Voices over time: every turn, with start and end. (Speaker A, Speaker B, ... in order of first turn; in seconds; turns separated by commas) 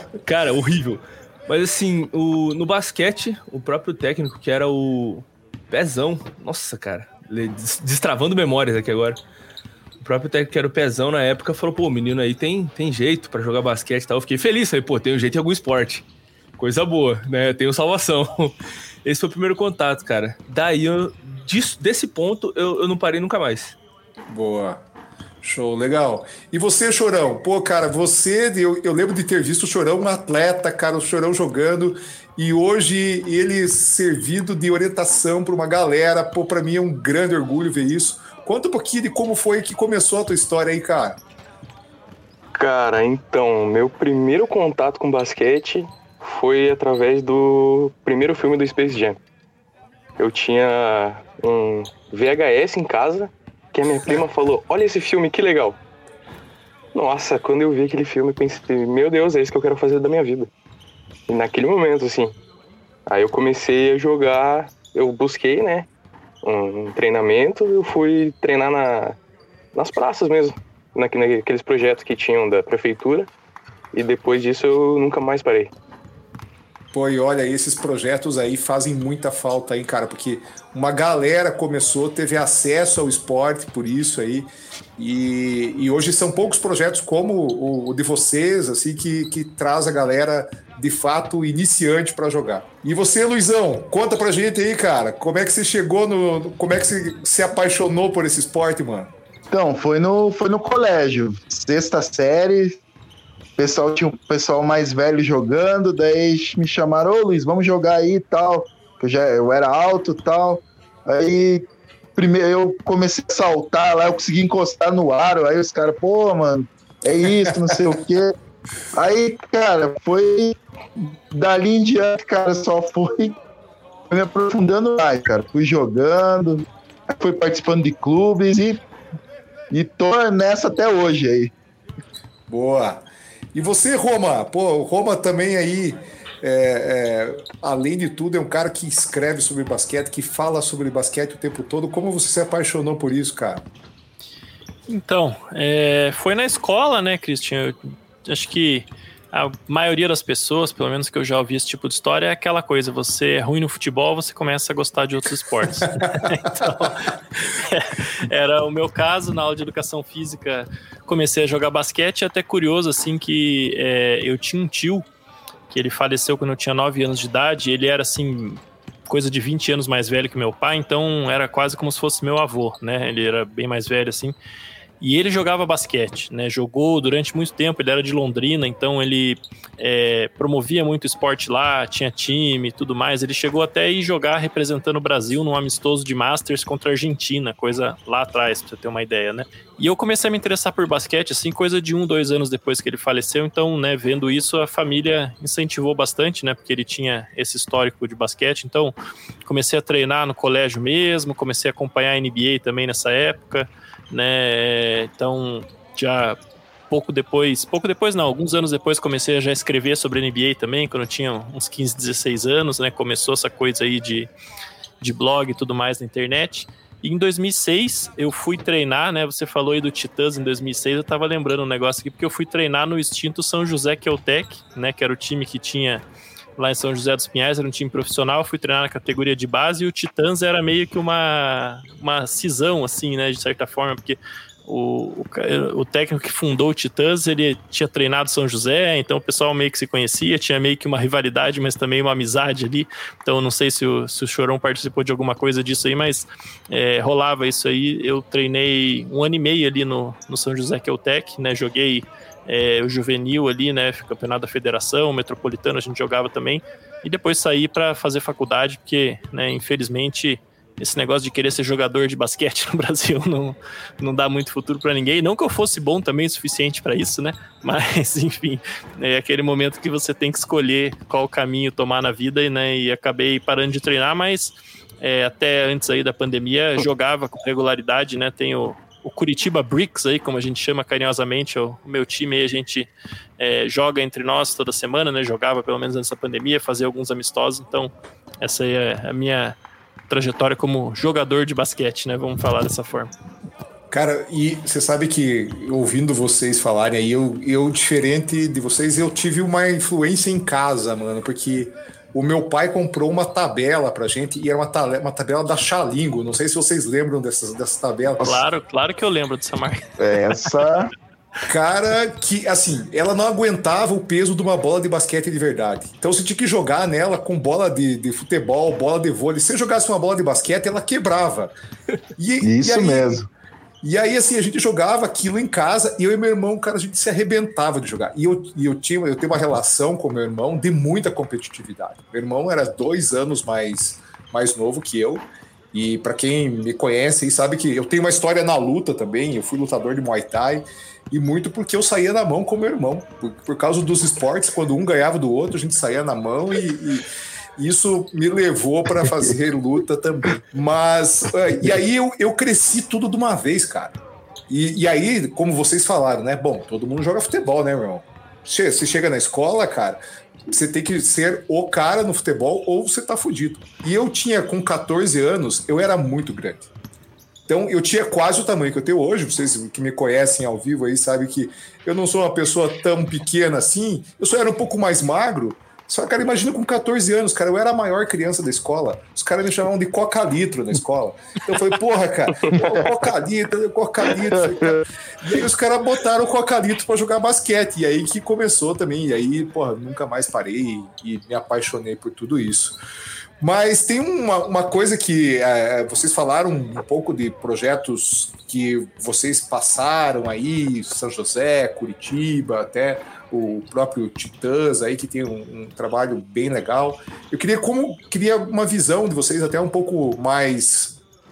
Speaker A: 0.2-9.2, Speaker A: 10.0-16.1, Speaker A: 16.6-23.8, Speaker B: 24.3-24.8, Speaker B: 25.4-41.2, Speaker C: 42.5-49.2, Speaker C: 50.2-55.8, Speaker C: 56.9-60.5, Speaker C: 61.3-62.4, Speaker C: 63.1-65.9, Speaker C: 66.4-69.2, Speaker C: 69.7-73.3, Speaker C: 73.9-75.7, Speaker B: 76.9-99.1, Speaker D: 99.5-102.8, Speaker D: 103.6-118.3, Speaker D: 118.9-123.4, Speaker D: 124.1-128.8, Speaker D: 129.7-131.5, Speaker B: 132.5-143.7, Speaker E: 144.9-165.1, Speaker E: 165.7-174.3, Speaker E: 175.0-206.4, Speaker E: 206.9-214.3, Speaker E: 215.0-226.0, Speaker E: 226.6-289.6, Speaker E: 290.1-293.1, Speaker B: 293.9-308.4, Speaker E: 308.2-309.9, Speaker D: 310.0-310.9, Speaker B: 311.5-321.5, Speaker B: 322.2-323.2, Speaker D: 322.4-323.3, Speaker B: 323.8-354.0, Speaker B: 354.5-366.7, Speaker B: 367.5-392.8, Speaker D: 382.5-382.9, Speaker D: 384.3-385.4, Speaker B: 393.4-411.0